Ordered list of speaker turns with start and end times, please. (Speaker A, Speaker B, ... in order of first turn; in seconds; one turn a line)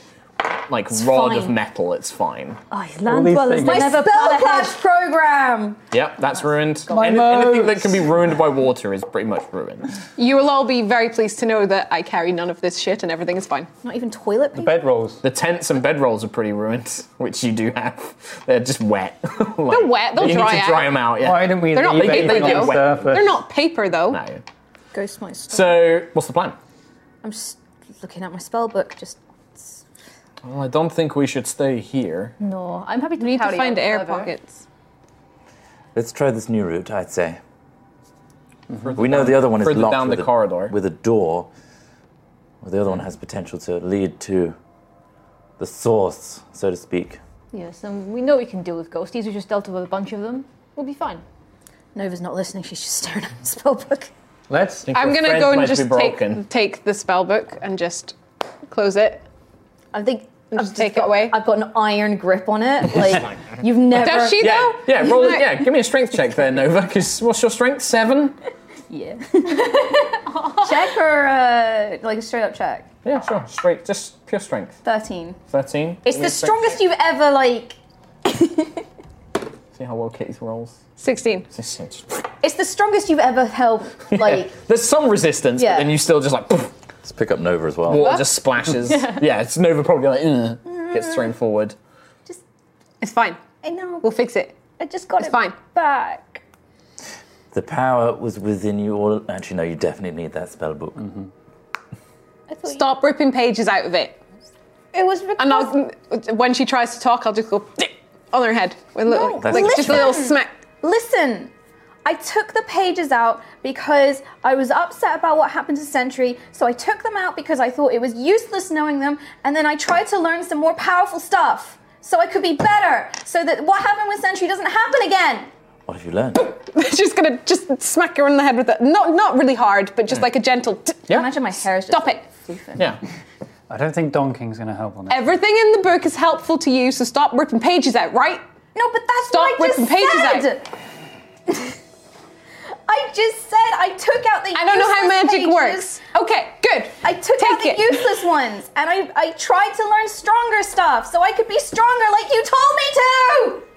Speaker A: 0.4-2.6
Speaker B: 1.1-1.4
Speaker C: 2.7-4.8
Speaker D: 3.1-3.9
Speaker B: 3.6-5.8
Speaker A: 5.9-9.9
Speaker D: 6.9-8.0
Speaker E: 10.2-13.7
Speaker B: 13.8-14.8
Speaker D: 14.5-15.2
Speaker A: 15.2-23.1
Speaker E: 19.7-21.0
Speaker D: 21.2-23.4
Speaker E: 21.7-24.2
Speaker A: 24.1-24.4
Speaker B: 24.9-25.7
Speaker A: 25.5-26.6
Speaker B: 27.2-29.8
Speaker A: 30.4-32.4
Speaker C: 32.4-34.3
Speaker E: 33.2-34.6
Speaker F: 36.0-37.4
Speaker A: 38.8-40.7
Speaker F: 39.0-41.5
Speaker F: 42.6-44.6
Speaker F: 45.6-47.2
Speaker C: 47.5-51.2
Speaker B: 52.0-54.1
Speaker D: 54.5-54.9
Speaker A: 54.9-56.4
Speaker E: 54.9-58.2
Speaker E: 58.7-59.3
Speaker B: 59.9-64.5
Speaker E: 60.5-61.4
Speaker E: 63.9-65.6
Speaker A: 64.4-68.4
Speaker B: 68.9-72.9
Speaker C: 70.3-71.0
Speaker A: 73.0-74.8
Speaker B: 74.8-75.4
Speaker A: 75.5-76.8
Speaker B: 76.0-78.8
Speaker A: 79.8-80.8
Speaker E: 81.0-81.5
Speaker A: 81.5-82.2
Speaker B: 82.4-84.5
Speaker A: 84.1-86.7
Speaker B: 85.6-85.9
Speaker F: 87.0-88.2
Speaker A: 87.9-91.8
Speaker E: 87.9-88.3
Speaker B: 90.7-91.3
Speaker E: 93.0-93.5
Speaker B: 93.6-94.2
Speaker E: 94.0-94.6
Speaker B: 94.8-96.4
Speaker E: 95.2-95.6
Speaker F: 97.5-101.0
Speaker D: 101.0-101.3
Speaker B: 102.5-102.9
Speaker E: 102.6-104.2
Speaker B: 104.9-105.5
Speaker E: 105.4-110.5
Speaker B: 109.1-111.5
Speaker F: 109.4-110.2
Speaker B: 112.0-125.5
Speaker F: 125.9-126.6
Speaker E: 126.4-131.2
Speaker B: 131.1-133.0
Speaker E: 131.9-132.2
Speaker D: 133.7-135.3
Speaker E: 135.1-138.4
Speaker B: 138.8-140.7
Speaker E: 139.3-140.5
Speaker B: 141.5-141.8
Speaker B: 142.9-146.0
Speaker E: 144.5-148.1
Speaker B: 147.0-153.7